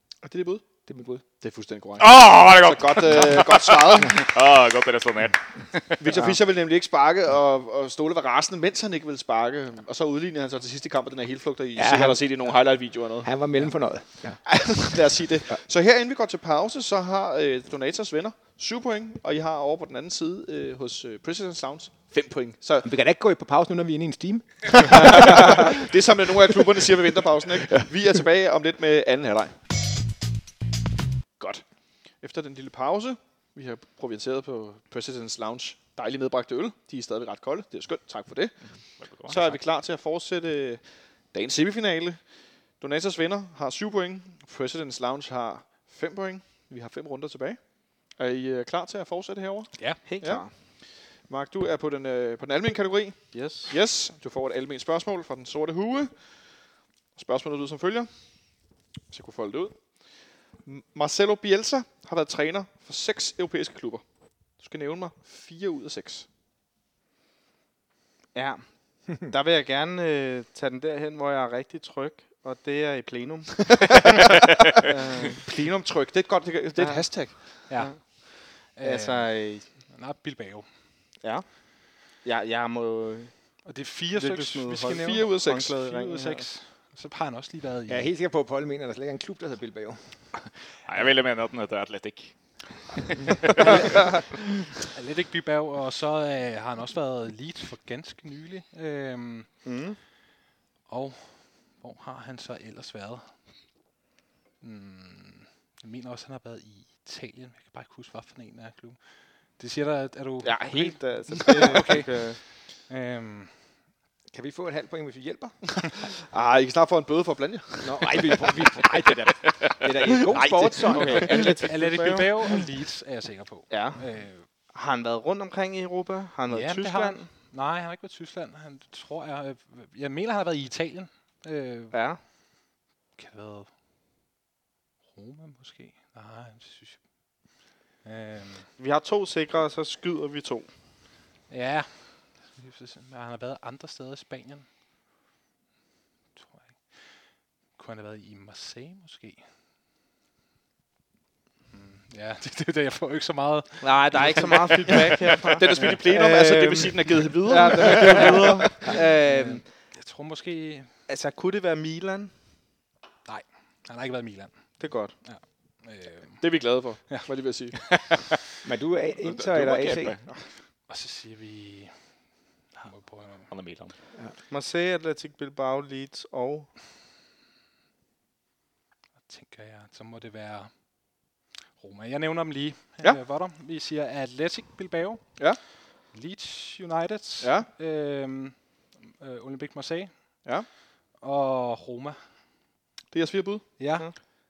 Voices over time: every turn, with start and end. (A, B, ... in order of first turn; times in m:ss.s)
0:00.2-0:00.6 A
0:00.9-0:01.2 B
0:01.4-0:04.3 A
0:02.0-0:06.0 C
0:06.0-0:13.4 A
0:11.8-0:14.8 B
0:14.4-0:22.9 A
0:22.8-0:25.7 B
0:24.8-0:29.6 A
0:32.2-0:50.5 A
0:39.0-0:39.6 C
0:49.8-0:50.0 D
0:50.0-0:50.5 E
0:51.3-0:58.1 A
0:53.3-0:53.7 E
0:59.1-1:00.0 A
1:00.6-1:04.0 A
1:04.6-1:06.3 A
1:08.3-1:15.5 E
1:15.4-1:17.6 A
1:16.8-1:19.8 E
1:17.7-1:20.7 D
1:21.2-1:21.5 E
1:22.1-1:23.3 E
1:23.6-1:28.1 D
1:24.1-1:26.5 E
1:24.9-1:25.8 A
1:27.9-1:30.0 B
1:30.8-1:32.4 C
1:32.9-1:33.8 C
1:33.6-1:34.1 D
1:34.8-1:39.6 D
1:39.6-1:40.0 E
1:40.9-1:43.4 D
1:44.6-1:53.6 D
1:50.4-1:52.4 E
1:54.3-1:55.6 B
1:56.0-1:58.7 A
1:57.8-2:01.3 B
2:00.3-2:02.7 E
2:01.0-2:04.5 D
2:03.7-2:04.0 E
2:04.7-2:07.3 E
2:06.5-2:12.0 D
2:11.9-2:12.2 E
2:13.2-2:13.7 D
2:15.1-2:17.0 D
2:18.0-2:18.7 D
2:18.8-2:20.7 E
2:21.5-2:24.7 D
2:26.4-2:29.4 D
2:31.7-2:35.9 D
2:33.8-2:39.7 E
2:35.4-2:38.8 A
2:38.7-2:40.9 D
2:41.1-2:42.3 E
2:43.2-2:48.1 D
2:44.8-2:45.2 E
2:46.4-2:48.0 A
2:48.6-2:50.4 B
2:49.2-2:50.4 C
2:50.9-2:52.0 D
2:52.8-2:53.5 D
2:53.5-2:53.9 C
2:54.5-2:56.7 E
2:59.3-3:01.2 D
3:01.8-3:05.2 D
3:06.1-3:10.1 D
3:07.4-3:07.7 A
3:11.2-3:12.2 D
3:13.1-3:13.8 A
3:13.8-3:14.1 D